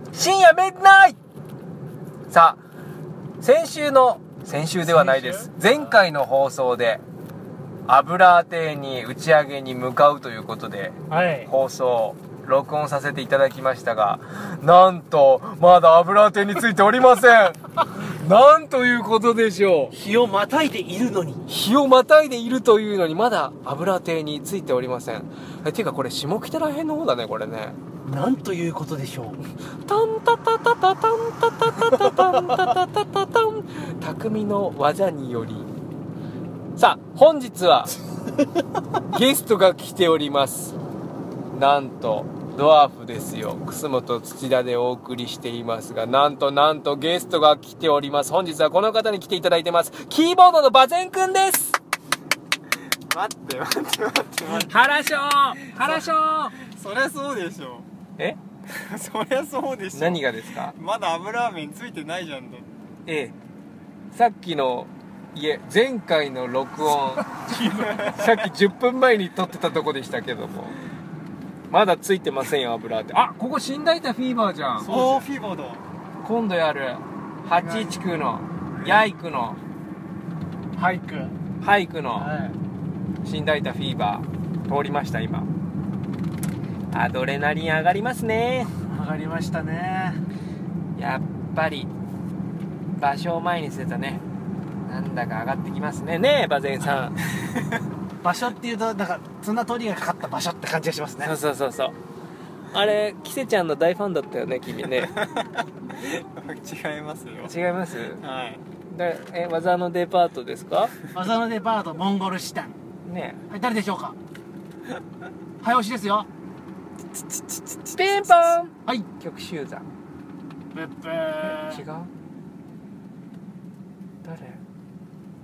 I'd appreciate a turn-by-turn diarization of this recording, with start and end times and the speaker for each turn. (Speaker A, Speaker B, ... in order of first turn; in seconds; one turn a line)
Speaker A: 0.1-1.2
Speaker A: 2.3-2.6
Speaker A: 3.4-7.0
Speaker B: 4.8-5.7
Speaker A: 7.9-19.9
Speaker B: 11.1-11.5
Speaker B: 19.9-21.4
Speaker A: 21.5-27.8
Speaker B: 28.0-29.4
Speaker A: 29.9-35.7
Speaker A: 36.8-37.9
Speaker A: 39.1-40.8
Speaker A: 41.5-51.8
Speaker C: 53.1-54.9
Speaker A: 54.4-56.5
Speaker C: 55.6-57.9
Speaker C: 58.7-62.7
Speaker A: 59.9-60.7
Speaker A: 63.1-63.3
Speaker A: 64.1-67.3
Speaker B: 67.1-68.2
Speaker C: 67.8-68.3
Speaker A: 68.0-70.8
Speaker A: 71.7-74.9
Speaker B: 74.8-75.3
Speaker C: 74.9-75.8
Speaker A: 76.2-79.6
Speaker C: 77.7-78.0
Speaker B: 80.8-81.3
Speaker A: 81.6-82.3
Speaker B: 82.2-82.6
Speaker A: 83.2-85.5
Speaker A: 86.9-88.7
Speaker B: 88.9-90.2
Speaker A: 91.0-91.9
Speaker A: 93.0-94.2
Speaker A: 94.8-97.2
Speaker B: 98.2-101.4
Speaker A: 101.2-102.0
Speaker A: 102.7-105.1
Speaker C: 105.0-107.5
Speaker A: 107.4-108.2
Speaker C: 108.2-108.6
Speaker A: 108.9-111.0
Speaker B: 111.1-112.8
Speaker A: 113.0-113.4
Speaker B: 113.5-114.2
Speaker B: 115.6-116.3
Speaker C: 117.1-118.5
Speaker A: 117.9-119.9
Speaker B: 120.7-121.8
Speaker A: 121.4-122.1
Speaker A: 124.2-124.6